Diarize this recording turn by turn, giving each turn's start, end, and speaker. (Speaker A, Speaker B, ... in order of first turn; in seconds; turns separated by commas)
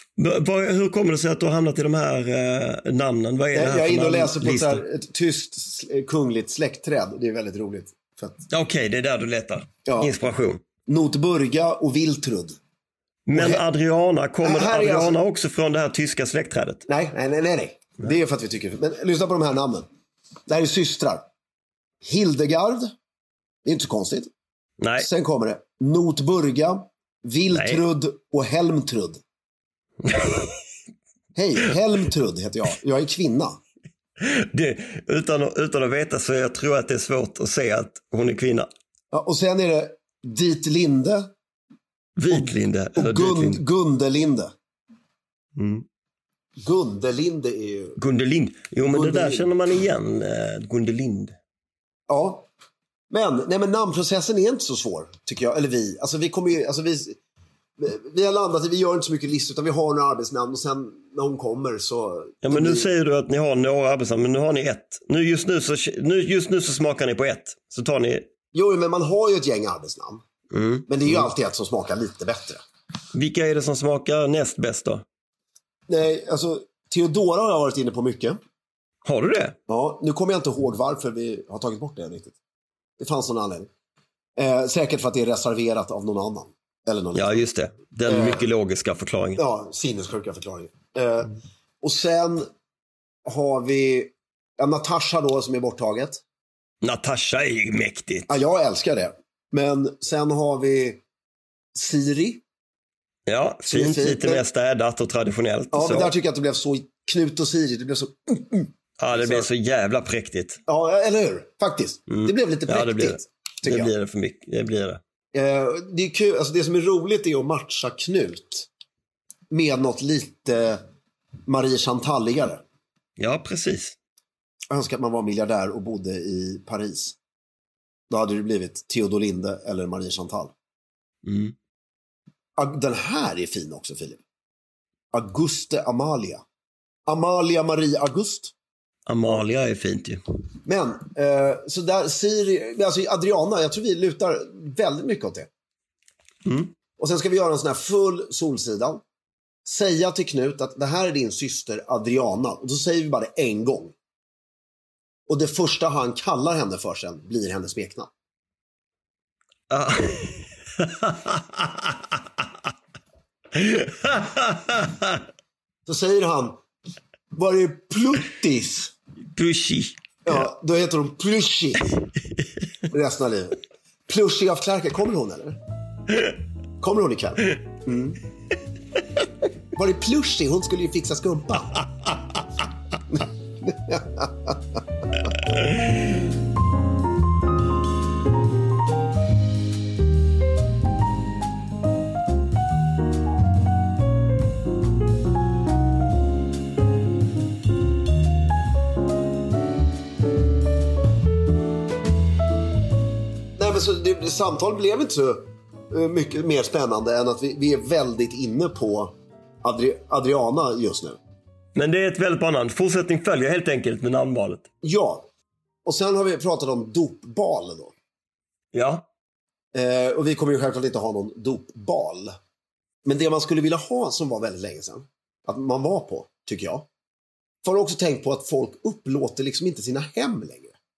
Speaker A: 0.2-4.8, Speaker B: 3.5-8.4, Speaker A: 8.5-10.6, Speaker B: 9.9-10.1, Speaker B: 10.9-12.6, Speaker A: 13.3-16.9, Speaker B: 13.3-13.6, Speaker B: 14.4-15.2, Speaker B: 16.9-19.9, Speaker B: 20.5-21.2, Speaker B: 22.0-22.9, Speaker B: 23.6-24.3, Speaker A: 24.8-25.1, Speaker B: 25.0-29.2, Speaker A: 27.5-27.8, Speaker A: 30.0-30.5, Speaker B: 31.4-33.6, Speaker A: 34.2-38.7, Speaker B: 39.1-41.3, Speaker A: 42.2-43.6, Speaker B: 42.3-44.5, Speaker A: 45.6-45.9, Speaker B: 46.6-48.0, Speaker A: 48.0-51.4, Speaker B: 48.8-49.5, Speaker B: 52.1-52.5, Speaker B: 53.1-57.2, Speaker B: 57.8-62.9, Speaker A: 62.4-68.3, Speaker B: 68.5-70.2, Speaker A: 70.5-71.3, Speaker B: 70.9-72.6, Speaker A: 73.1-75.0, Speaker B: 75.9-78.4, Speaker A: 79.0-79.6, Speaker B: 79.7-82.4, Speaker B: 83.0-83.7, Speaker B: 84.4-87.4, Speaker A: 87.1-89.4, Speaker B: 88.1-88.5, Speaker B: 89.4-92.5, Speaker B: 93.2-96.2, Speaker A: 96.8-98.4, Speaker B: 98.3-101.0, Speaker B: 101.7-102.4, Speaker A: 103.3-106.1, Speaker B: 103.7-104.4, Speaker B: 105.7-109.5, Speaker A: 109.0-110.6, Speaker B: 110.7-113.9, Speaker A: 112.1-115.0, Speaker B: 115.3-118.7, Speaker B: 119.5-120.8, Speaker B: 121.5-122.6, Speaker A: 123.2-124.0, Speaker B: 124.7-127.1, Speaker B: 128.1-130.5, Speaker A: 131.2-131.6, Speaker B: 132.6-134.2, Speaker B: 135.1-136.4, Speaker B: 137.1-138.5, Speaker A: 139.1-140.2, Speaker B: 140.6-145.5, Speaker A: 146.4-146.7, Speaker B: 147.0-149.0, Speaker B: 149.6-153.9, Speaker B: 155.3-158.1, Speaker A: 159.7-162.0, Speaker A: 163.5-165.2, Speaker B: 165.9-166.6, Speaker B: 167.3-168.9, Speaker A: 169.3-170.5, Speaker B: 170.3-171.9, Speaker B: 172.9-175.6, Speaker B: 176.8-178.2, Speaker B: 179.7-181.8, Speaker B: 183.1-185.3, Speaker B: 203.6-211.2, Speaker A: 211.7-214.7, Speaker B: 214.8-215.3, Speaker B: 215.8-217.9, Speaker A: 218.7-219.1, Speaker B: 219.7-222.3, Speaker B: 223.1-226.9, Speaker B: 227.6-230.7